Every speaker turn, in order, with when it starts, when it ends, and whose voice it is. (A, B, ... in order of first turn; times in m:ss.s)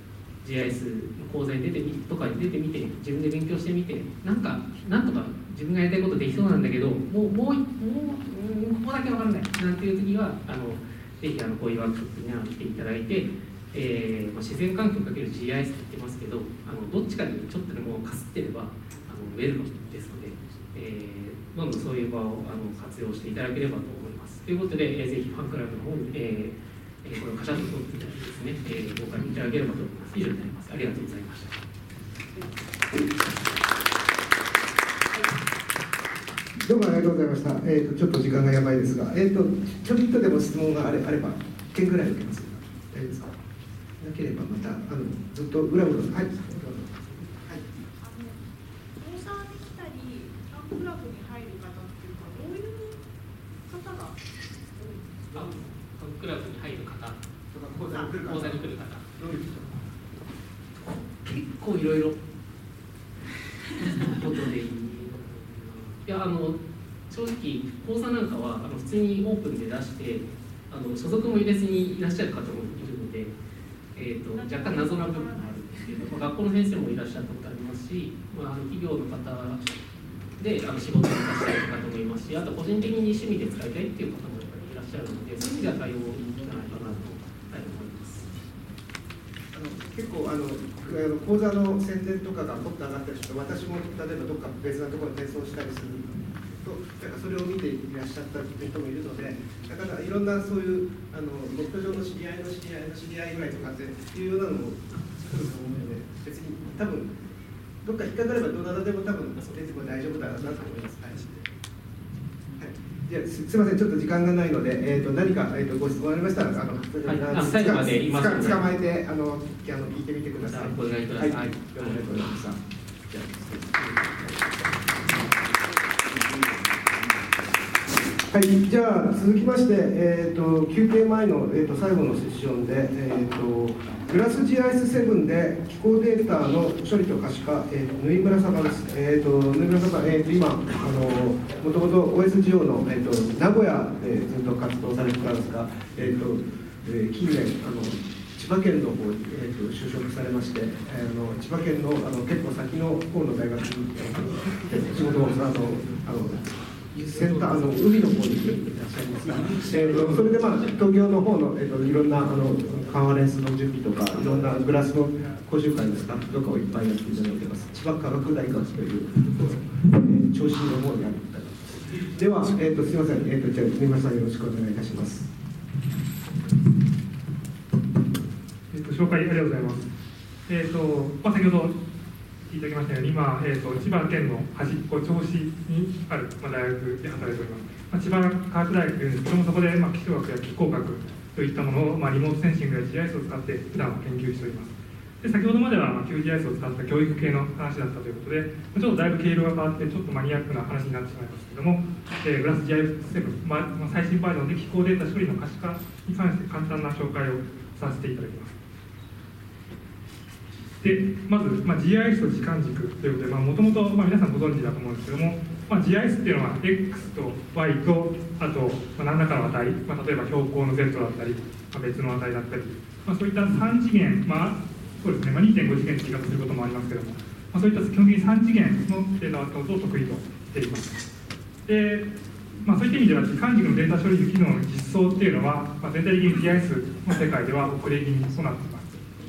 0:00.4-0:31.6 A
0:36.6-0:43.3 B
0:44.0-0:47.6 B
0:48.0-0:48.4 C
0:49.0-0:53.0 C
0:53.6-0:54.2 C
0:54.8-0:55.4 C
0:55.3-0:57.2 A
0:57.5-0:59.8 B
0:57.9-0:58.2 C
0:58.1-0:59.1 A
1:01.1-1:02.2 A
1:03.8-1:13.3 A
1:13.9-1:19.6 A
1:14.3-1:16.2 C
1:20.4-1:28.3 A
1:29.5-1:47.1 B
1:47.8-1:51.5 B
1:52.6-2:04.3 B
1:57.0-1:58.7 A
2:00.4-2:02.1 A
2:08.3-2:55.3 B
2:38.6-2:39.8 A
2:58.7-2:59.9 D
3:00.5-3:01.8 D
3:02.4-3:28.5 D
3:30.8-3:51.0 D
3:51.6-3:52.1 D
3:52.6-3:59.0 D